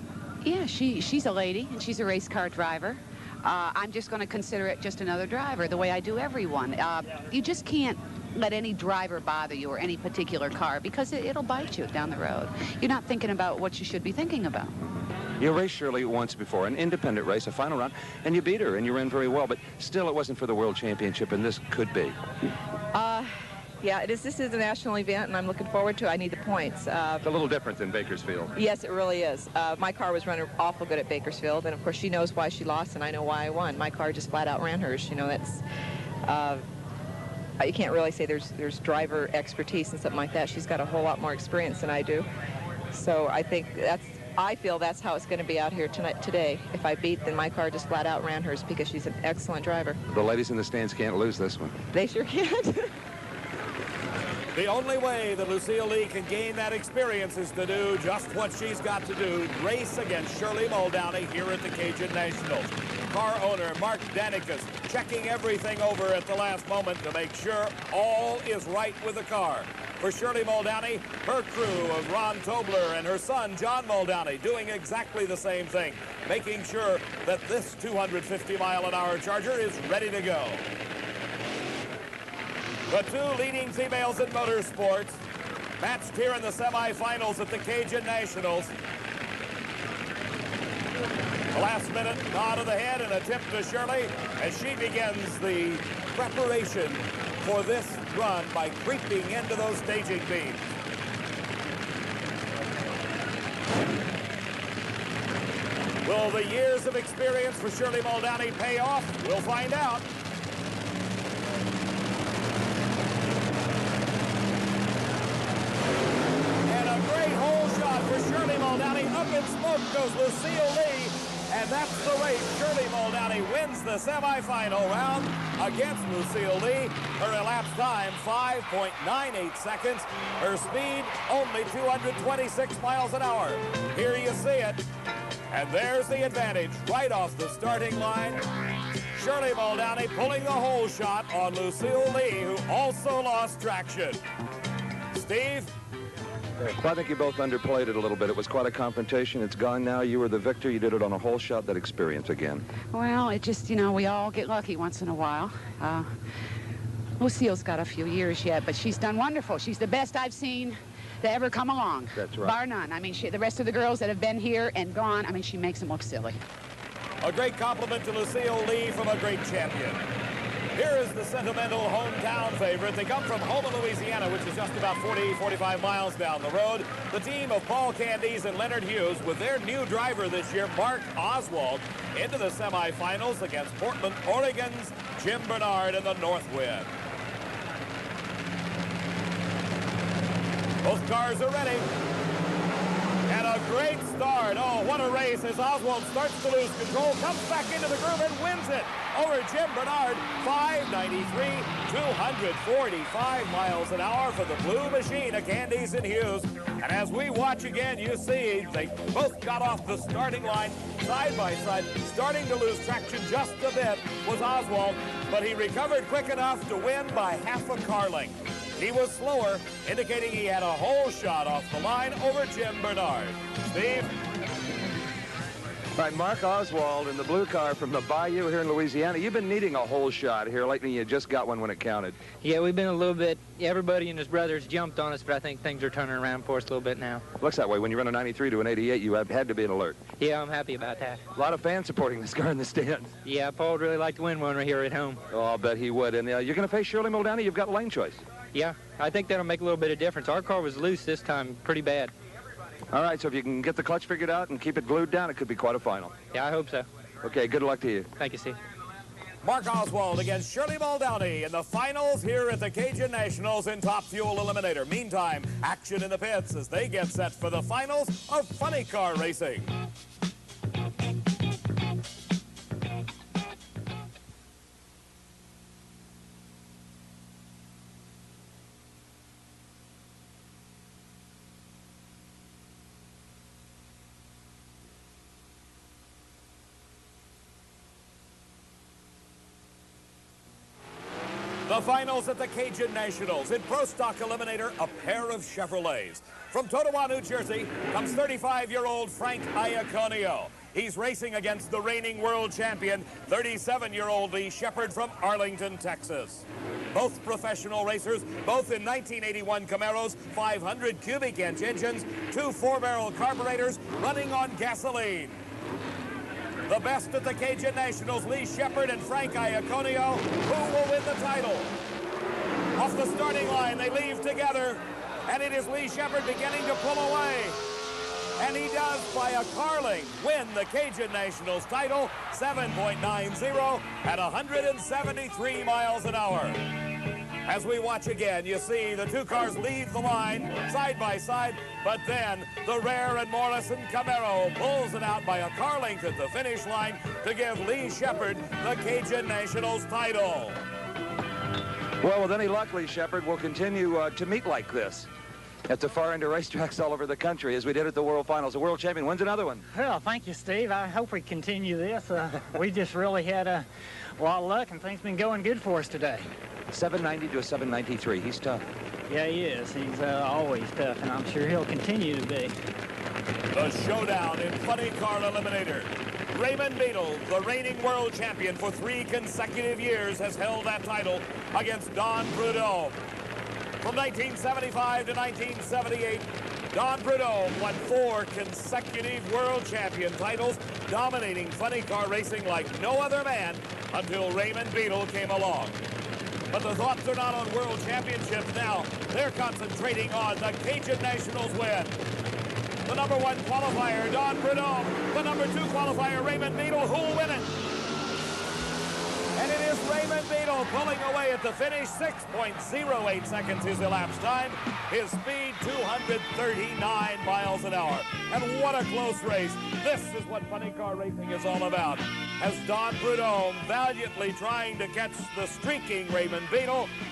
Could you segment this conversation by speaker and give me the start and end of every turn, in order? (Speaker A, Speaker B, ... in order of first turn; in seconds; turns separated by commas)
Speaker A: 0.4-14.7, Speaker B: 15.4-22.1, Speaker C: 22.9-27.2, Speaker B: 27.2-28.5, Speaker C: 28.5-35.6, Speaker C: 36.2-36.6, Speaker C: 37.6-42.3, Speaker C: 42.9-50.0, Speaker B: 50.1-51.7, Speaker C: 51.9-52.9, Speaker D: 54.5-80.6, Speaker D: 82.9-85.2, Speaker D: 85.8-88.7, Speaker D: 91.5-100.6, Speaker D: 106.0-110.0, Speaker D: 116.7-134.8, Speaker D: 135.5-138.4, Speaker D: 139.1-144.2, Speaker D: 145.1-145.7, Speaker B: 146.7-152.6, Speaker A: 152.9-156.1, Speaker A: 157.2-166.4, Speaker B: 162.1-162.6, Speaker D: 167.2-170.0, Speaker D: 170.7-186.9, Speaker D: 190.8-191.9, Speaker D: 193.3-224.1, Speaker B: 226.0-232.2, Speaker E: 232.4-237.2, Speaker B: 237.4-240.0, Speaker E: 240.2-241.2, Speaker B: 241.3-243.1, Speaker E: 243.2-245.2, Speaker B: 245.3-248.2, Speaker E: 248.5-252.1, Speaker B: 252.9-256.1, Speaker E: 256.3-256.9, Speaker B: 257.2-258.1, Speaker E: 258.2-258.6, Speaker D: 259.4-269.7, Speaker D: 291.7-315.4, Speaker D: 316.7-321.7, Speaker D: 322.8-327.6, Speaker D: 328.4-336.6, Speaker D: 337.4-350.6, Speaker B: 352.0-355.1, Speaker B: 355.7-359.6, Speaker F: 359.7-366.3, Speaker B: 366.7-368.6, Speaker F: 369.1-372.5, Speaker D: 373.5-383.0, Speaker D: 383.8-395.8, Speaker D: 396.5-401.9, Speaker D: 402.9-407.5, Speaker D: 409.3-426.9